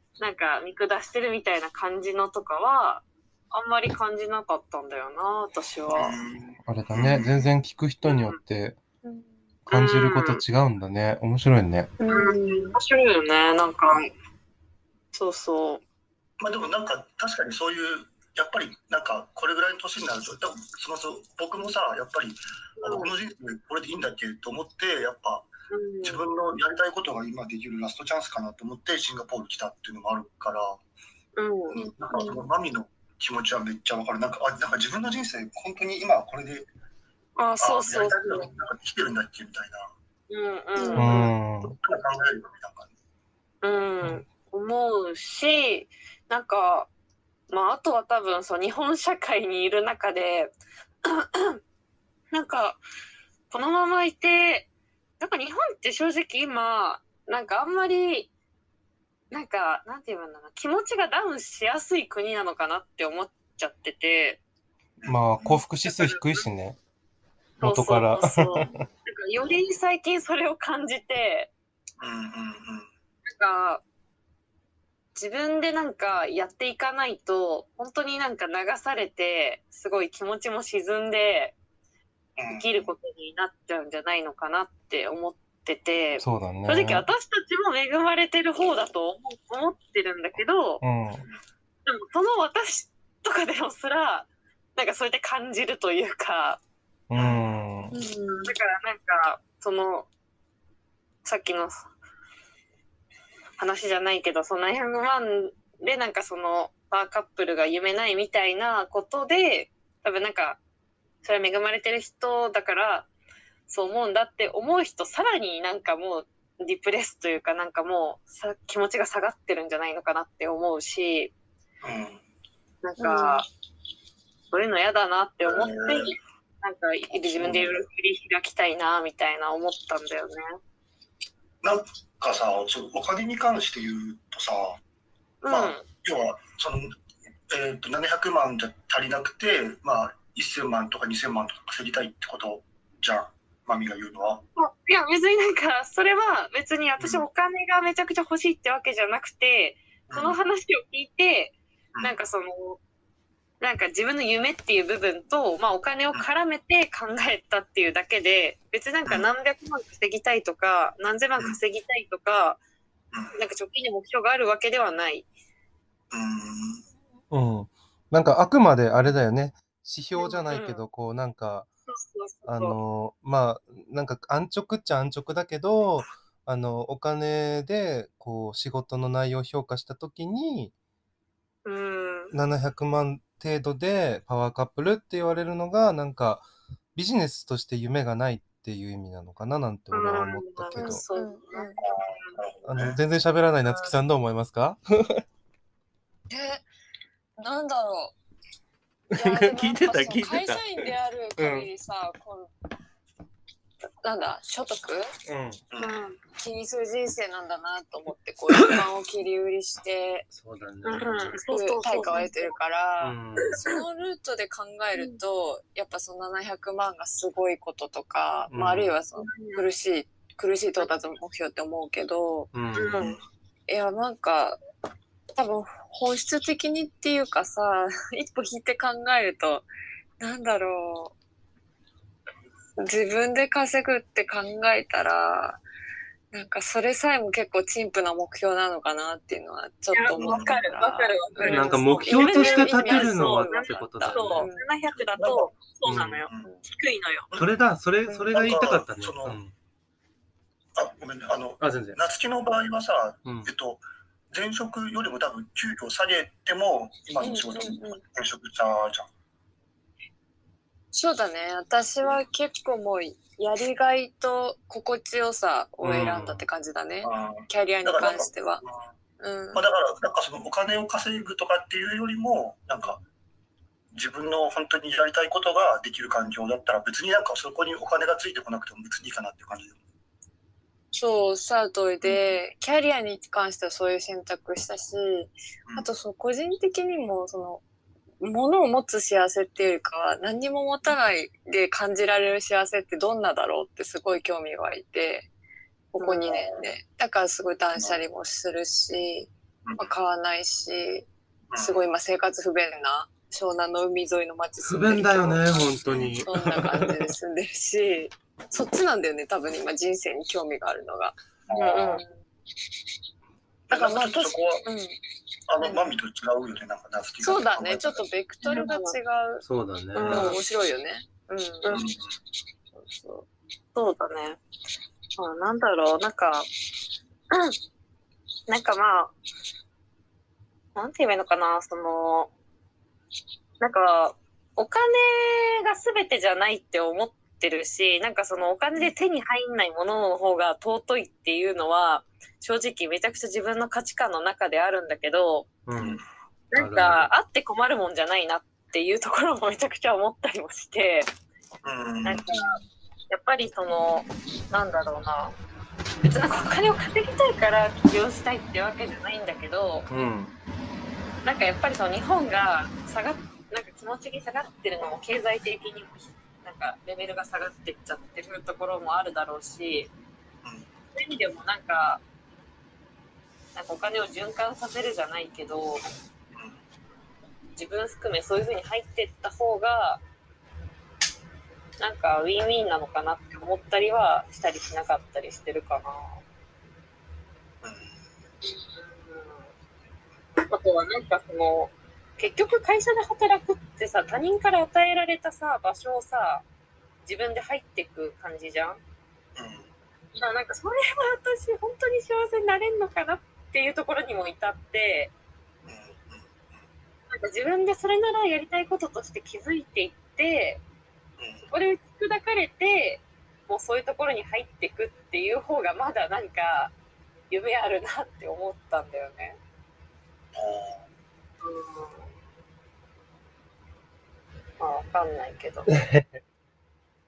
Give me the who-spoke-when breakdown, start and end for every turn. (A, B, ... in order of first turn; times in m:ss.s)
0:00.2-0:06.2 A
0:05.9-0:07.5 B
0:06.6-0:08.8 C
0:08.0-0:08.4 A
0:09.0-0:09.4 D
0:09.7-0:11.9 C
0:09.7-0:10.4 A
0:12.0-0:12.8 D
0:12.1-0:14.1 A
0:15.1-0:15.8 A
0:16.4-0:25.5 B
0:22.8-0:23.1 A
0:25.7-0:26.2 A
0:26.0-0:30.8 B
0:31.4-0:31.8 A
0:31.7-0:36.7 B
0:37.4-0:38.5 A
0:37.6-0:39.9 B
0:40.3-0:41.3 A
0:40.8-0:41.3 D
0:41.0-0:41.7 C
0:41.6-0:42.9 B
0:43.6-0:46.9 A
0:47.5-0:51.6 A
0:52.3-0:52.8 A
0:53.5-0:54.7 A
0:55.2-0:58.3 A
0:59.3-1:04.4 A
1:05.0-1:05.6 B
1:05.0-1:06.8 C
1:05.8-1:06.4 A
1:07.6-1:11.5 A
1:07.6-1:08.8 C
1:12.0-1:12.9 B
1:13.2-1:13.8 A
1:15.1-1:21.6 A
1:22.4-1:22.9 B
1:22.5-1:30.8 A
1:26.2-1:27.0 C
1:30.8-1:31.2 C
1:31.8-1:36.6 A
1:37.1-1:37.9 C
1:37.1-1:37.4 B
1:37.9-1:38.5 D
1:38.4-1:40.1 A
1:41.2-1:41.8 A
1:43.6-1:50.6 A
1:51.2-1:53.1 A
1:53.7-2:01.3 A
2:01.8-2:02.2 B
2:02.8-2:03.5 A
2:03.0-2:03.4 D
2:04.5-2:10.4 A
2:05.4-2:06.1 B
2:07.1-2:07.8 B
2:11.6-2:14.8 B
2:15.4-2:15.8 A
2:15.5-2:17.0 B
2:17.5-2:24.4 B
2:24.6-2:32.8 A
2:27.0-2:27.2 B
2:30.1-2:30.4 B
2:33.6-2:42.6 A
2:43.3-2:45.2 A
2:46.1-2:46.8 B
2:47.3-2:51.7 C
2:50.2-2:50.8 A
2:51.9-2:52.8 A
2:52.4-3:00.7 C
3:01.6-3:02.3 A
3:02.3-3:11.0 C
3:09.9-3:12.4 A
3:10.7-3:11.8 D
3:11.8-3:13.0 B
3:12.6-3:15.2 C
3:13.6-3:13.9 A
3:16.3-3:16.6 D
3:17.4-3:18.1 D
3:19.1-3:21.7 C
3:19.1-3:22.5 D
3:24.0-3:25.1 D
3:25.3-3:25.6 C
3:25.7-3:26.0 B
3:25.8-3:26.2 A
3:26.4-3:30.3 D
3:30.3-3:31.4 C
3:30.8-3:32.5 A
3:31.5-3:42.5 D
3:33.0-3:33.6 C
3:38.5-3:39.0 C
3:39.2-3:39.6 A
3:42.5-3:43.0 C
3:42.7-3:43.2 A
3:43.7-3:44.6 D
3:45.3-3:49.7 D
3:50.2-3:51.1 D
3:52.8-3:55.6 D
3:56.3-4:04.7 D
3:59.9-4:07.3 A
4:00.2-4:00.6 B
4:01.4-4:04.5 C
4:04.9-4:05.5 B
4:05.8-4:06.2 C
4:07.3-4:07.6 B
4:07.4-4:09.5 C
4:08.3-4:09.4 B
4:10.8-4:19.1 B
4:11.6-4:12.0 C
4:13.2-4:13.5 C
4:17.2-4:18.0 D
4:20.9-4:28.6 D
4:25.8-4:26.4 C
4:27.0-4:28.9 B
4:29.2-4:29.6 D
4:29.5-4:33.0 B
4:33.9-4:39.8 B
4:40.9-4:47.6 D
4:48.2-4:55.3 D
4:55.9-5:11.1 D
4:56.0-4:56.4 A
4:59.6-4:59.9 B
5:01.5-5:01.9 B
5:04.6-5:07.1 C
5:05.8-5:06.2 B
5:11.5-5:12.0 B
5:11.5-5:12.0 A
5:13.7-5:14.7 B
5:13.7-5:15.0 D
5:15.5-5:18.0 B
5:17.2-5:19.4 D
5:18.4-5:18.9 A
5:19.4-5:20.4 C
5:19.9-5:20.4 A
5:20.0-5:21.6 D
5:21.6-5:22.2 B
5:22.8-5:23.2 D
5:23.7-5:24.4 A
5:25.2-5:26.5 A
5:28.5-5:29.1 A
5:30.7-5:32.3 A
5:33.6-5:45.5 A
5:45.6-5:46.0 C
5:45.8-5:46.0 B
5:46.5-5:51.1 A
5:46.5-5:47.1 C
5:51.6-5:52.4 B
5:52.0-5:55.3 A
5:56.0-5:59.9 A
5:59.9-6:00.3 C
6:01.2-6:09.9 A
6:10.4-6:10.7 B
6:10.9-6:12.0 A
6:13.5-6:15.8 A
6:16.3-6:16.6 B
6:17.5-6:20.0 A
6:21.8-6:26.2 A
6:27.6-6:28.2 B
6:28.4-6:29.4 A
6:30.5-6:36.4 A
6:37.0-6:38.8 A
6:39.4-6:39.7 B
6:40.1-6:45.1 A
6:45.6-6:46.6 B
6:47.1-6:50.6 A
6:51.2-6:51.5 B
6:51.5-6:56.7 A
6:57.3-6:59.4 A
7:00.3-7:00.9 B
7:01.4-7:02.1 A
7:04.6-7:05.7 A
7:05.7-7:06.2 C